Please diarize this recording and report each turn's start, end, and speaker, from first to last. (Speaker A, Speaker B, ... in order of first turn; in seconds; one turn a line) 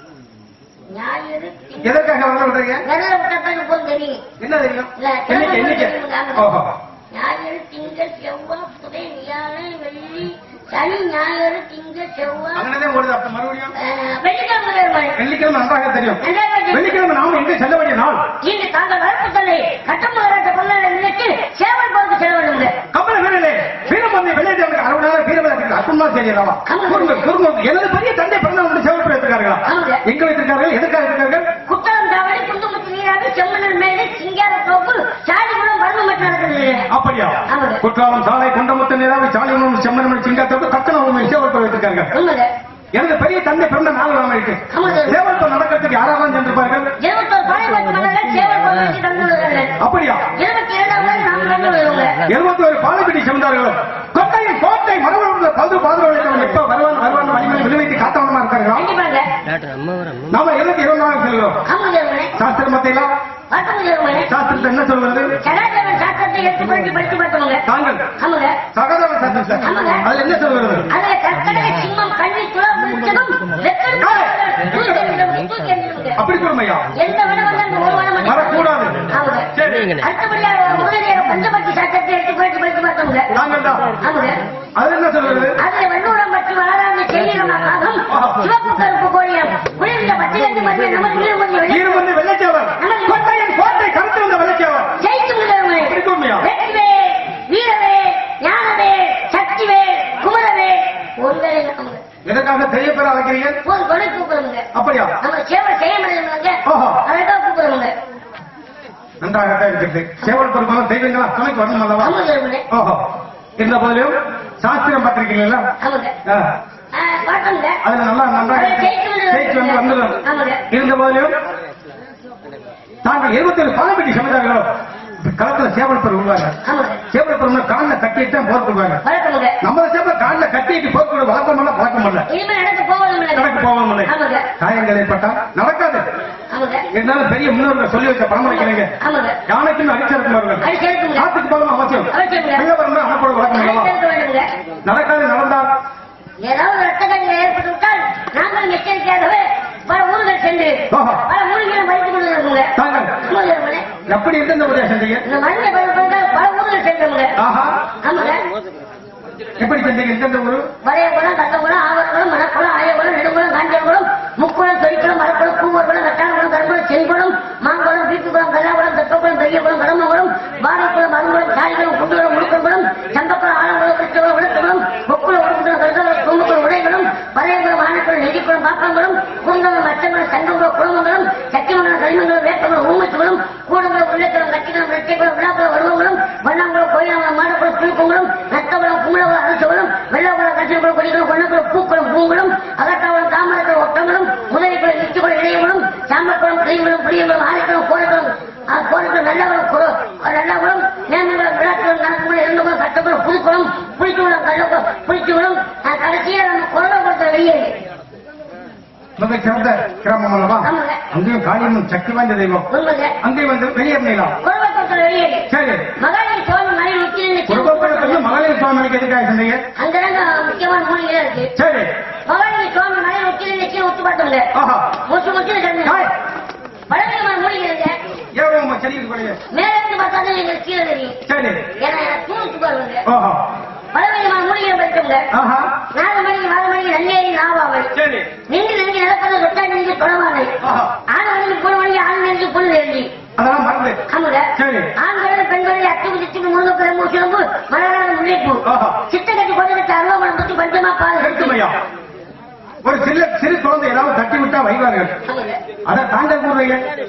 Speaker A: 0.9-2.0
Speaker B: 1.8-2.8
Speaker A: 2.9-4.2
Speaker B: 4.4-6.7
Speaker A: 5.0-6.5
Speaker A: 7.1-12.7
Speaker B: 12.6-13.7
Speaker A: 13.8-15.2
Speaker B: 15.2-18.2
Speaker A: 16.2-16.9
Speaker A: 18.4-22.7
Speaker B: 22.9-31.5
Speaker A: 26.7-27.3
Speaker A: 29.6-30.0
Speaker A: 31.7-36.9
Speaker B: 36.9-42.1
Speaker A: 37.5-37.8
Speaker A: 42.1-42.5
Speaker B: 42.9-46.9
Speaker A: 44.7-45.2
Speaker A: 47.0-49.7
Speaker B: 49.8-50.3
Speaker A: 50.4-52.2
Speaker B: 52.2-58.9
Speaker A: 58.7-59.3
Speaker B: 60.3-61.6
Speaker A: 61.7-62.3
Speaker B: 62.4-63.1
Speaker A: 63.5-64.3
Speaker B: 64.3-65.3
Speaker A: 65.4-67.6
Speaker B: 67.7-68.1
Speaker A: 68.2-68.6
Speaker B: 68.7-70.9
Speaker A: 69.6-70.1
Speaker A: 70.9-76.2
Speaker B: 74.0-75.2
Speaker B: 76.2-76.9
Speaker A: 76.9-83.3
Speaker B: 78.2-79.0
Speaker B: 79.5-80.0
Speaker B: 83.3-84.0
Speaker A: 84.0-84.4
Speaker B: 84.8-85.6
Speaker A: 85.6-92.0
Speaker B: 88.1-88.5
Speaker B: 91.7-95.0
Speaker A: 92.8-93.2
Speaker A: 95.0-102.0
Speaker B: 95.8-96.5
Speaker B: 102.2-103.6
Speaker A: 103.6-104.7
Speaker B: 104.7-105.1
Speaker A: 105.2-107.9
Speaker B: 106.7-107.0
Speaker B: 109.2-112.2
Speaker A: 112.0-112.7
Speaker B: 112.7-113.0
Speaker B: 113.6-115.7
Speaker A: 115.8-116.1
Speaker B: 116.2-116.5
Speaker A: 116.9-117.8
Speaker B: 117.8-121.3
Speaker A: 118.5-120.6
Speaker B: 123.0-124.7
Speaker B: 125.2-126.6
Speaker A: 126.6-127.0
Speaker B: 127.1-129.0
Speaker A: 129.0-129.6
Speaker B: 129.6-132.3
Speaker A: 132.3-134.5
Speaker B: 133.3-136.0
Speaker A: 136.5-136.9
Speaker B: 136.9-138.9
Speaker A: 138.5-139.4
Speaker B: 139.5-143.9
Speaker A: 140.6-141.3
Speaker A: 142.1-142.7
Speaker A: 143.5-144.5
Speaker B: 144.8-145.7
Speaker A: 146.4-153.9
Speaker B: 150.9-151.2
Speaker B: 152.8-153.2
Speaker B: 154.1-155.2
Speaker A: 155.2-157.3
Speaker B: 157.4-157.8
Speaker A: 158.0-158.4
Speaker B: 159.6-160.7
Speaker A: 160.8-207.7
Speaker B: 209.2-212.7
Speaker A: 210.6-211.0
Speaker A: 212.7-213.1
Speaker B: 213.2-214.4
Speaker A: 214.4-218.4
Speaker B: 215.5-215.9
Speaker B: 217.5-219.6
Speaker A: 219.8-221.5
Speaker B: 221.6-221.9
Speaker A: 222.3-224.5
Speaker B: 224.5-224.9
Speaker A: 225.1-226.1
Speaker B: 225.8-226.1
Speaker A: 226.9-228.0
Speaker B: 228.3-229.4
Speaker A: 229.5-231.2
Speaker B: 231.3-231.6
Speaker A: 231.8-233.0
Speaker B: 233.1-233.4
Speaker A: 233.9-235.2
Speaker B: 235.3-235.7
Speaker A: 235.9-237.9
Speaker B: 237.9-238.3
Speaker A: 238.5-240.5
Speaker B: 240.6-240.9
Speaker A: 241.1-243.1
Speaker B: 243.4-244.0
Speaker A: 244.1-251.6
Speaker B: 244.6-244.9
Speaker B: 248.7-249.0
Speaker B: 251.2-251.8
Speaker B: 252.8-255.2
Speaker A: 255.2-255.6
Speaker B: 255.9-256.9